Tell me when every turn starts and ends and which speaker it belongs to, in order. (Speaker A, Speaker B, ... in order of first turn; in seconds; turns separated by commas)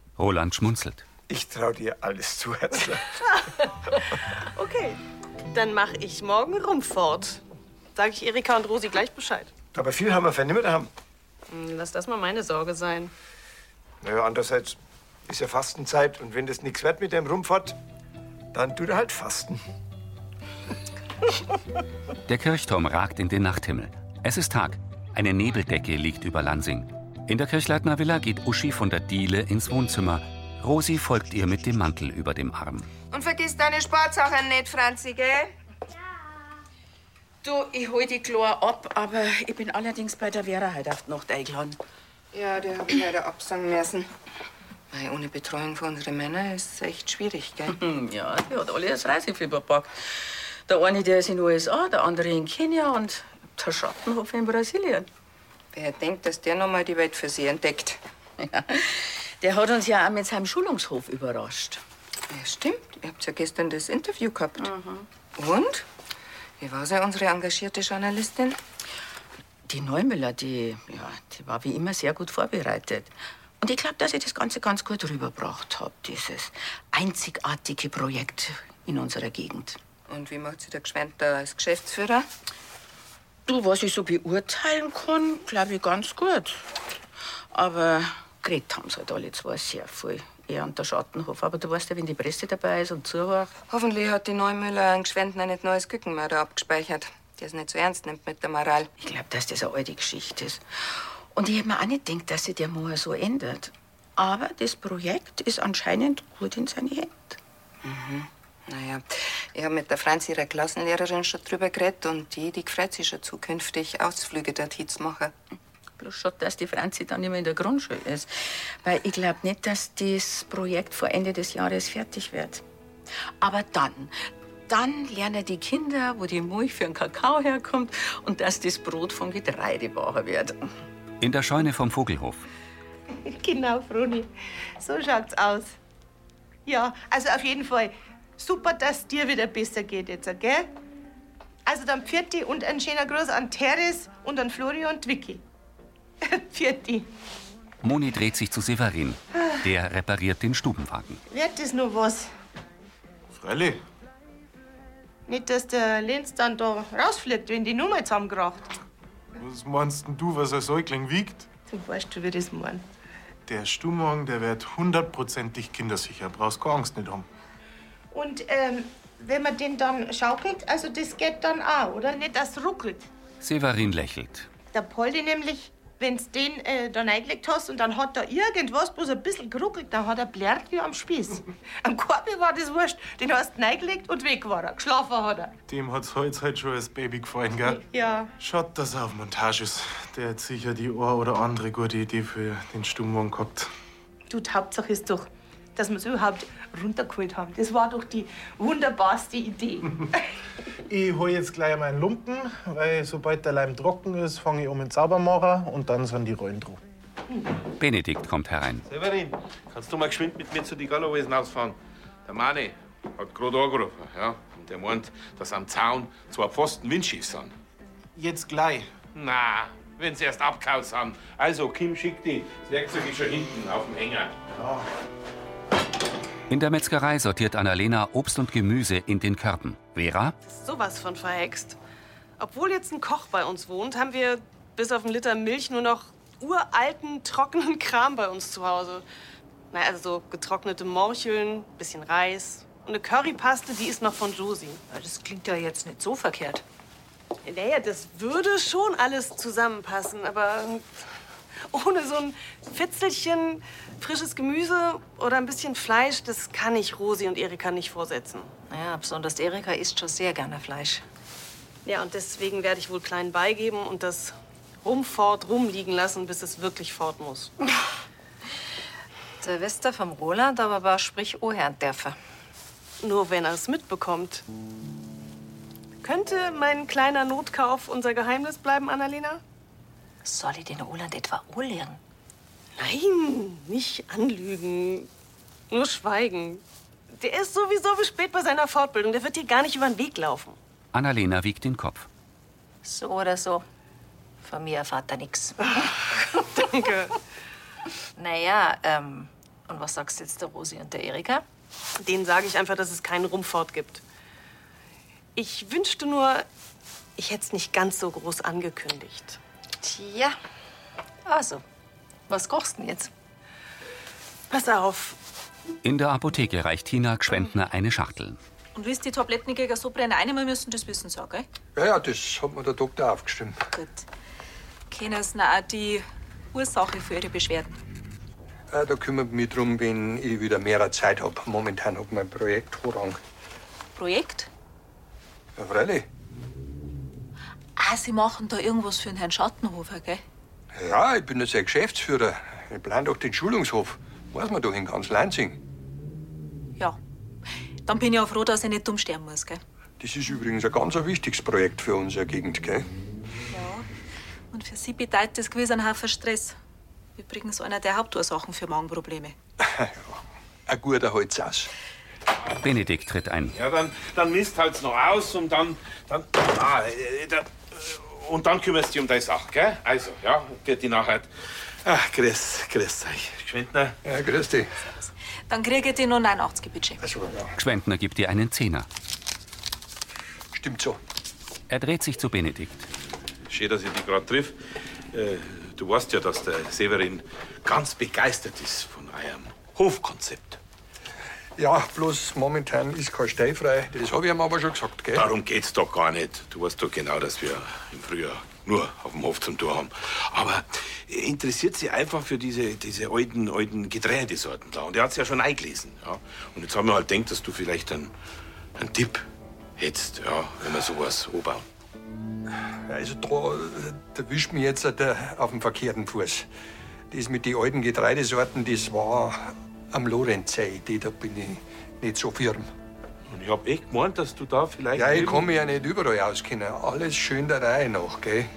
Speaker A: 0.2-1.0, Speaker B: 1.3-3.0, Speaker C: 3.4-5.0, Speaker C: 5.5-7.4, Speaker C: 7.9-9.5, Speaker B: 9.7-10.9, Speaker C: 11.5-13.1, Speaker B: 14.0-17.8, Speaker B: 18.5-19.6, Speaker A: 22.3-32.9, Speaker D: 33.1-35.5, Speaker E: 37.4-41.8, Speaker D: 42.3-44.1, Speaker D: 44.9-47.7, Speaker E: 47.7-55.1, Speaker D: 55.7-58.0, Speaker E: 58.4-61.8, Speaker D: 62.3-64.7, Speaker E: 64.6-65.0, Speaker D: 65.3-65.8, Speaker D: 66.6-68.6, Speaker E: 69.7-79.8, Speaker D: 80.1-82.3, Speaker E: 83.5-86.7, Speaker E: 87.5-93.5, Speaker D: 93.7-98.9, Speaker E: 99.0-107.4, Speaker D: 107.8-115.3, Speaker E: 116.0-122.6, Speaker E: 123.4-124.2, Speaker E: 124.7-130.7, Speaker A: 131.2-132.4, Speaker F: 133.2-135.7, Speaker F: 136.7-140.7, Speaker F: 141.7-145.4, Speaker F: 146.2-147.1, Speaker A: 147.8-151.2, Speaker F: 151.3-152.3, Speaker G: 153.3-153.8, Speaker F: 155.3-158.7, Speaker G: 159.4-161.5, Speaker F: 161.7-162.8, Speaker G: 163.4-167.3, Speaker F: 168.1-173.1, Speaker A: 173.4-174.5, Speaker F: 174.7-185.5, Speaker G: 185.7-187.8, Speaker F: 187.6-188.3, Speaker G: 188.4-193.7, Speaker F: 194.3-200.2, Speaker G: 200.9-206.8, Speaker A: 207.8-208.8, Speaker H: 208.9-217.5, Speaker G: 218.1-218.9, Speaker H: 219.1-224.3, Speaker G: 224.6-224.8, Speaker A: 226.5-230.3, Speaker C: 230.4-231.8, Speaker C: 232.4-239.0, Speaker C: 239.7-244.8, Speaker I: 244.9-246.6, Speaker C: 247.4-250.8, Speaker C: 251.7-258.5, Speaker I: 258.7-261.0, Speaker C: 261.8-267.5, Speaker I: 269.4-272.2, Speaker C: 273.0-274.4, Speaker C: 276.0-279.4, Speaker I: 280.2-282.0, Speaker C: 282.8-285.1, Speaker C: 285.7-290.6, Speaker A: 290.9-292.1, Speaker I: 292.8-293.6, Speaker I: 294.4-295.6, Speaker C: 296.5-297.1, Speaker I: 298.2-301.4, Speaker C: 302.0-304.0, Speaker C: 305.4-306.5, Speaker C: 307.2-309.4, Speaker I: 309.8-310.4, Speaker I: 311.2-311.6, Speaker I: 312.3-313.1, Speaker C: 314.5-315.2, Speaker A: 315.8-318.4, Speaker J: 318.7-321.4, Speaker K: 321.8-323.5, Speaker J: 323.7-324.0, Speaker J: 324.9-327.8, Speaker K: 328.7-333.2, Speaker J: 333.9-334.5, Speaker K: 335.6-336.0, Speaker J: 337.8-340.2, Speaker K: 340.8-345.6, Speaker J: 347.9-349.6, Speaker K: 350.0-352.9, Speaker J: 353.5-353.9, Speaker J: 354.5-356.6, Speaker J: 357.2-359.4, Speaker K: 359.7-360.0, Speaker K: 360.7-361.7, Speaker A: 362.6-363.6, Speaker H: 363.5-371.3, Speaker H: 371.8-374.0, Speaker K: 374.0-374.7, Speaker J: 375.5-377.0, Speaker K: 377.0-377.5, Speaker A: 377.6-378.9, Speaker K: 380.5-381.0, Speaker A: 381.7-382.9, Speaker H: 383.5-390.6, Speaker K: 391.6-395.3, Speaker H: 395.1-408.1, Speaker H: 408.8-409.2, Speaker H: 409.8-411.6, Speaker K: 412.9-416.4, Speaker K: 417.1-422.7, Speaker H: 423.3-425.5, Speaker K: 424.9-428.5